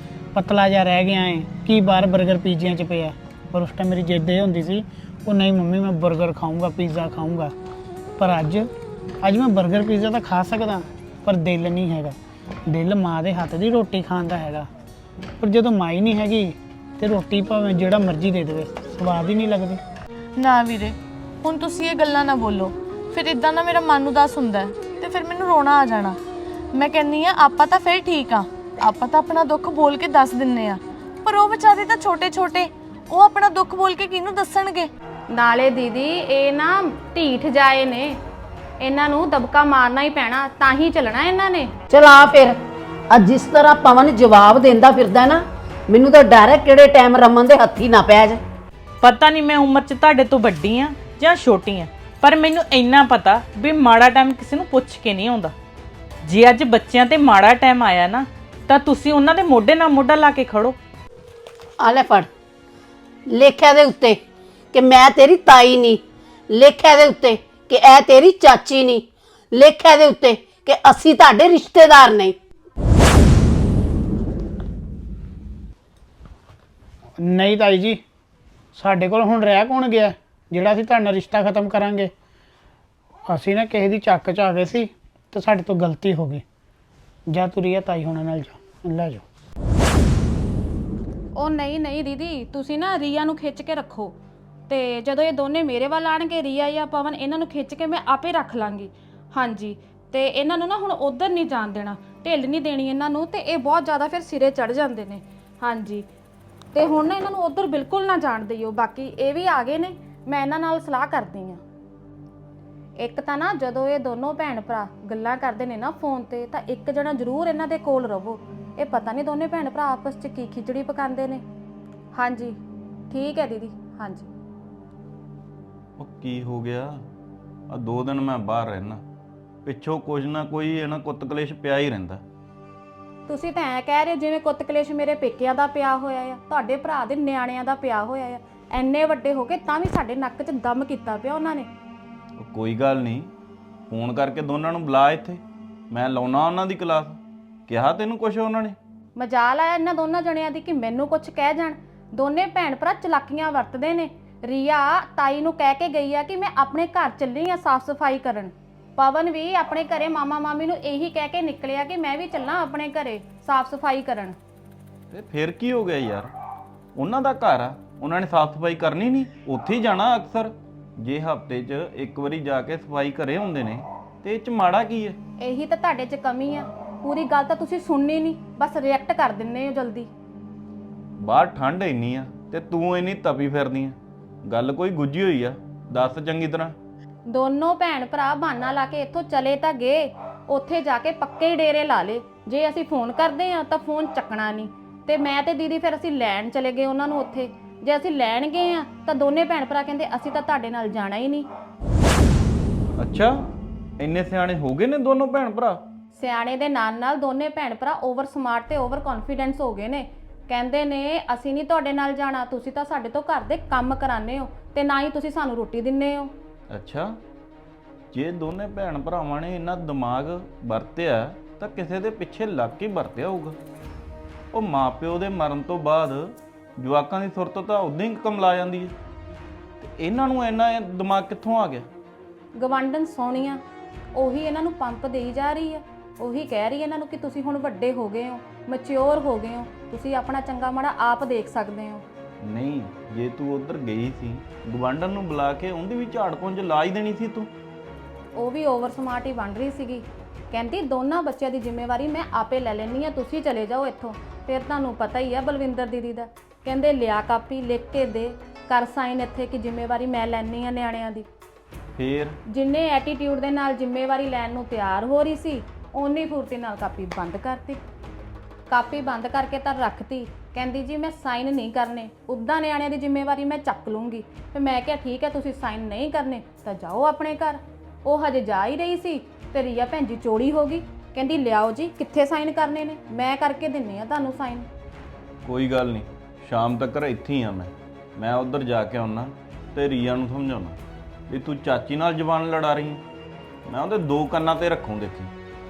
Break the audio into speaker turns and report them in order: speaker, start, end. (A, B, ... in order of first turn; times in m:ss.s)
0:00.3-0:07.5 A
0:08.2-0:08.7 A
0:09.2-0:14.7 A
0:15.4-0:19.8 A
0:20.4-0:26.2 B
0:26.7-0:34.9 B
0:35.3-0:38.2 C
0:38.8-0:41.7 C
0:41.9-0:42.6 D
0:43.1-0:48.4 D
0:49.0-0:55.5 E
0:56.2-1:00.7 E
1:01.8-1:02.3 D
1:03.3-1:04.2 D
1:04.7-1:12.4 D
1:17.2-1:18.0 A
1:18.7-1:22.1 A
1:23.3-1:26.4 A
1:27.3-1:29.2 A
1:31.4-1:34.1 C
1:34.7-1:46.1 C
1:46.7-1:51.6 C
1:53.0-2:01.4 C
2:02.1-2:02.6 C
2:03.1-2:04.3 C
2:06.0-2:06.9 F
2:07.7-2:09.0 F
2:09.6-2:12.2 F
2:13.3-2:21.7 C
2:22.4-2:23.3 F
2:23.9-2:28.8 F
2:29.2-2:44.3 C
2:45.1-2:46.3 F
2:47.0-2:55.2 F
2:55.4-3:00.1 C
3:01.2-3:06.8 F
3:07.3-3:21.4 C
3:23.0-3:23.3 F
3:24.0-3:25.8 F
3:26.2-3:36.3 C
3:36.7-3:37.1 F
3:38.1-3:43.6 F
3:44.5-3:48.9 F
3:49.8-3:51.9 F
3:52.6-3:53.6 C
3:54.1-4:02.0 C
4:02.4-4:07.5 F
4:08.4-4:21.2 C
4:22.0-4:22.4 F
4:22.5-4:27.8 C
4:28.7-4:44.6 C
4:45.4-4:50.8 F
4:51.3-4:53.0 F
4:53.6-4:55.3 F